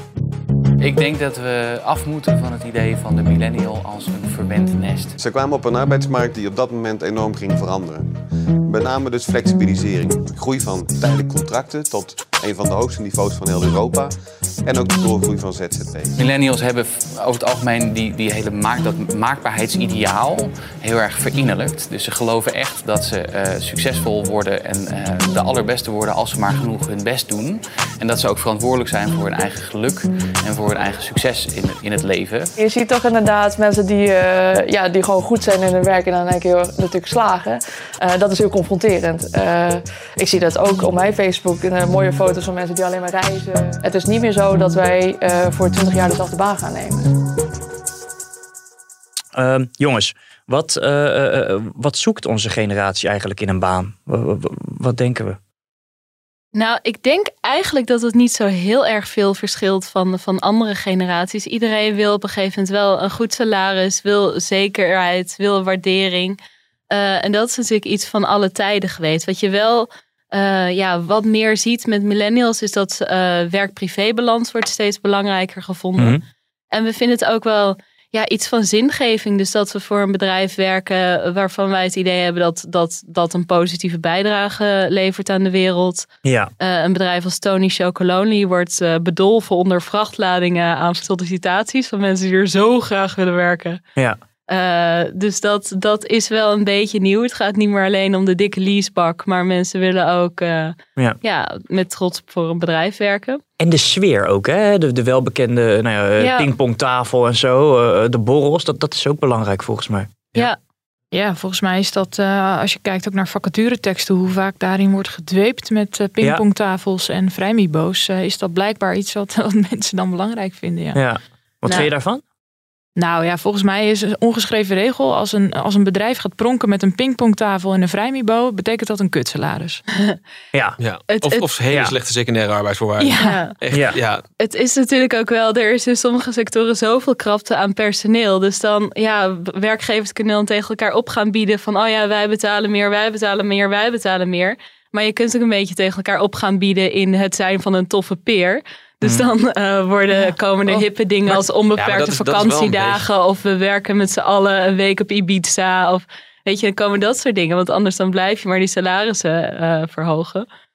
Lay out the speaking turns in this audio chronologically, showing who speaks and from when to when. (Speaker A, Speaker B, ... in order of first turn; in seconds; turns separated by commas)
Speaker A: 0.8-5.2, Speaker B: 5.2-8.1, Speaker B: 8.7-16.1, Speaker A: 16.1-32.5, Speaker C: 32.6-47.0, Speaker D: 49.3-55.4, Speaker E: 56.5-66.4, Speaker E: 66.9-86.1, Speaker D: 76.0-76.2, Speaker D: 86.2-86.5, Speaker E: 86.6-93.8, Speaker E: 94.5-103.4, Speaker D: 103.6-110.2, Speaker E: 106.2-106.5, Speaker F: 111.1-121.0, Speaker D: 120.9-122.2, Speaker F: 123.0-129.8, Speaker D: 130.5-130.8, Speaker G: 130.8-134.2, Speaker E: 131.1-131.4, Speaker F: 133.0-133.4, Speaker E: 133.2-133.5, Speaker D: 133.7-134.0, Speaker E: 134.4-160.4, Speaker F: 150.1-150.8, Speaker G: 151.8-153.0